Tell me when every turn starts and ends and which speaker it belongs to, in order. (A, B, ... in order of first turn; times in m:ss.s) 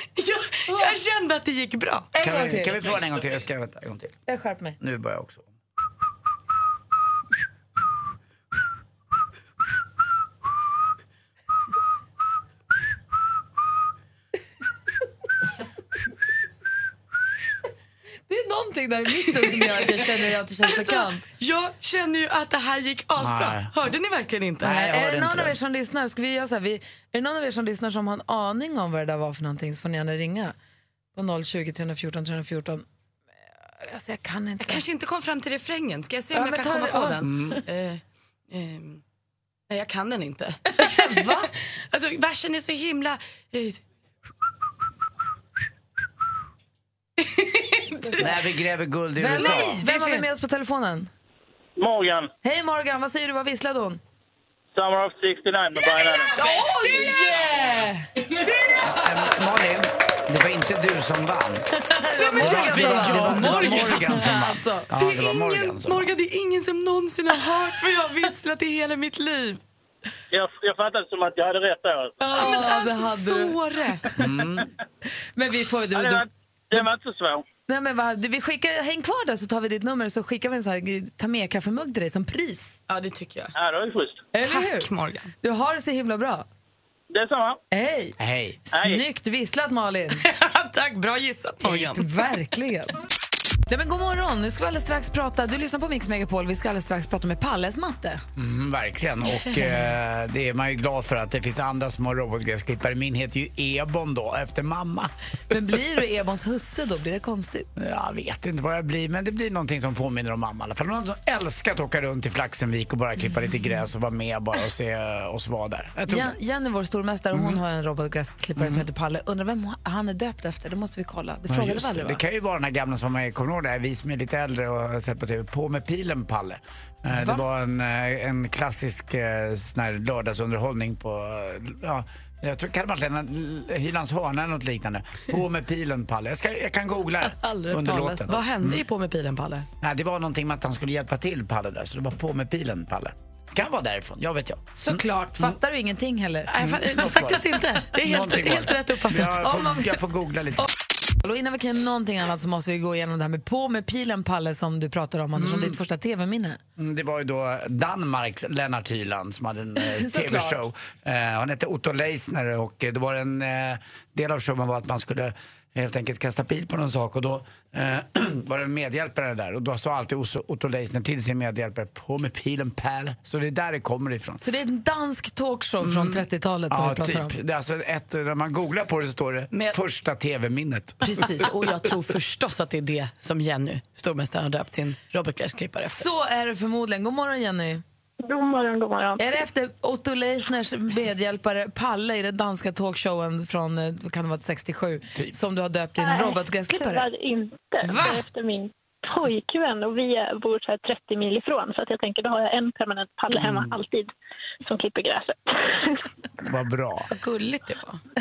0:00.2-0:02.1 A
0:00.7-0:00.9 B
0:02.1-0:02.9 B
0:02.2-0:04.2 C
0:04.3-0:04.8 B
0:04.8-0:05.5 C
0:18.3-0:21.2 B
0:19.4-0:20.0 A
0:20.6-0:24.9 A
0:23.2-0:23.7 C
0:24.6-0:25.6 C
0:24.7-0:30.6 B
0:31.1-0:32.9 B
0:33.8-0:34.8 B
0:34.6-0:39.0 A
0:36.3-0:37.4 B
0:37.2-0:37.6 C
0:39.7-0:43.8 A
0:40.8-0:41.5 B
0:47.3-0:48.3 A
0:48.2-0:49.8 C
0:49.2-0:51.1 B
0:49.4-0:50.2 A
0:51.8-0:52.3 D
0:52.4-0:54.0 B
0:54.7-0:56.3 D
0:56.3-0:57.3 A
0:56.4-0:58.1 B
0:58.8-1:01.6 C
1:02.0-1:04.9 B
1:02.2-1:04.3 A
1:02.4-1:06.1 C
1:05.0-1:09.6 A
1:10.3-1:12.1 D
1:12.2-1:13.6 B
1:12.3-1:14.1 A
1:14.2-1:14.7 C
1:15.4-1:16.9 B
1:15.9-1:17.4 D
1:17.7-1:22.8 B
1:22.9-1:23.5 A
1:23.6-1:24.2 D
1:24.3-1:24.9 B
1:24.4-1:25.3 A
1:25.4-1:26.4 B
1:27.1-1:27.6 D
1:27.7-1:28.2 B
1:28.2-1:28.6 C
1:28.7-1:29.0 D
1:28.7-1:30.2 B
1:30.2-1:32.1 A
1:31.6-1:32.9 B
1:33.7-1:38.2 B
1:38.4-1:45.1 C
1:45.5-1:47.7 B
1:47.8-1:56.4 C
1:56.1-2:02.2 B
1:57.3-1:57.6 C
1:58.6-1:58.8 C
2:01.5-2:18.8 C
2:07.1-2:07.4 B
2:17.5-2:18.2 B
2:18.3-2:19.7 A
2:19.8-2:25.6 C
2:24.8-2:27.2 B
2:26.5-2:29.9 A
2:26.6-2:27.4 C
2:28.0-2:30.7 C
2:31.2-2:36.6 B
2:36.8-2:54.4 C
2:39.8-2:40.6 B
2:54.4-2:57.4 B
2:55.8-3:01.4 C
3:01.0-3:06.0 A
3:05.9-3:07.8 B
3:08.2-3:09.2 E
3:09.2-3:17.1 B
3:16.0-3:24.1 E
3:17.9-3:18.2 A
3:23.3-3:23.8 C
3:24.6-3:25.9 E
3:26.4-3:27.1 C
3:27.1-3:28.0 A